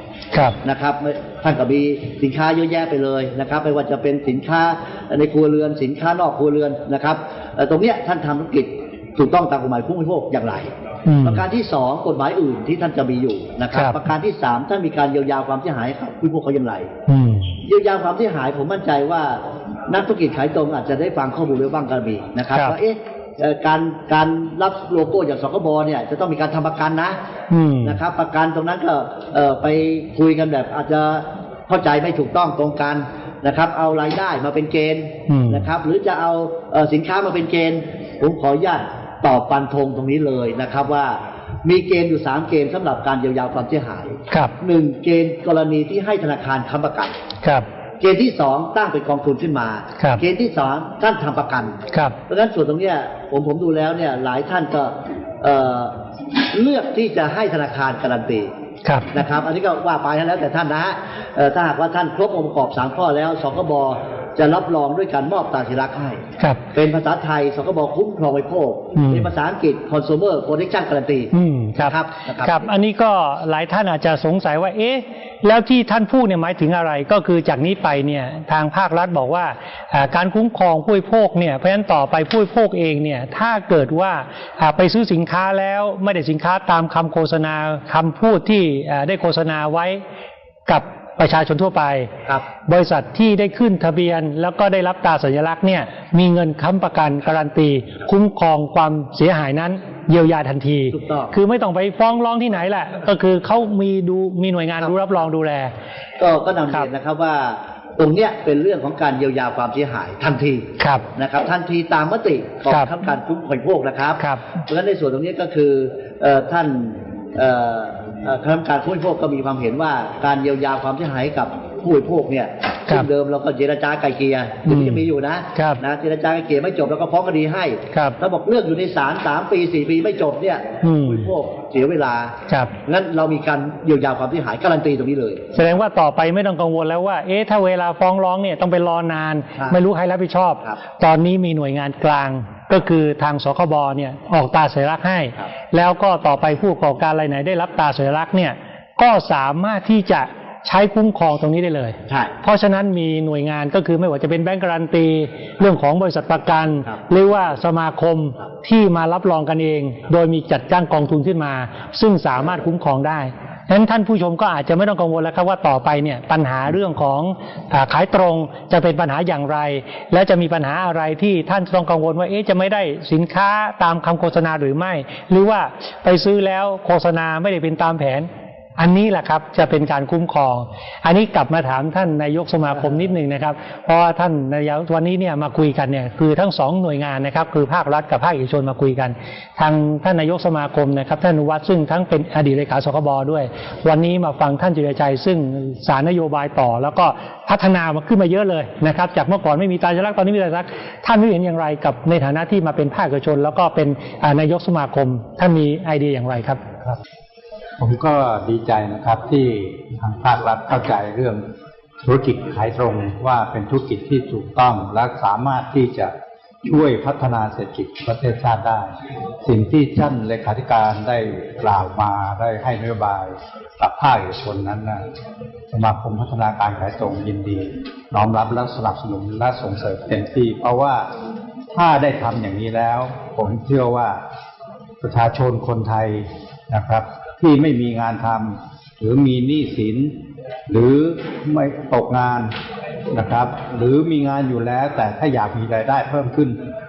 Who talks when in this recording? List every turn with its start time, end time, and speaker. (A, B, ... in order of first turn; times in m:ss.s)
0:00.5-0:16.9 A
0:11.1-0:11.4 B
0:13.7-0:14.0 B
0:17.1-0:17.6 B
0:17.6-0:27.2 A
0:22.5-0:22.8 B
0:27.5-0:28.0 B
0:27.8-0:47.2 A
0:35.3-0:35.7 B
0:48.0-0:56.0 A
0:51.9-0:52.2 B
0:56.5-0:58.5 A
0:58.8-0:59.1 B
0:59.1-1:12.7 A
1:09.0-1:09.3 B
1:11.3-1:30.0 B
1:30.7-1:32.1 B
1:32.6-1:45.7 B
1:40.9-1:41.3 A
1:44.8-1:45.3 A
1:46.2-2:12.3 A
1:50.8-1:51.0 B
1:52.7-1:52.9 B
2:04.6-2:05.8 B
2:07.9-2:08.2 B
2:10.8-2:11.3 B
2:12.9-2:15.4 A
2:15.5-3:26.6 B
2:32.1-2:32.3 A
3:27.8-3:31.4 C
3:32.0-3:36.1 C
3:36.6-3:38.9 C
3:39.4-3:45.0 C
3:45.7-3:51.1 C
3:51.7-3:54.2 C
3:55.0-4:00.1 C
4:00.7-4:02.5 C
4:03.1-4:06.6 C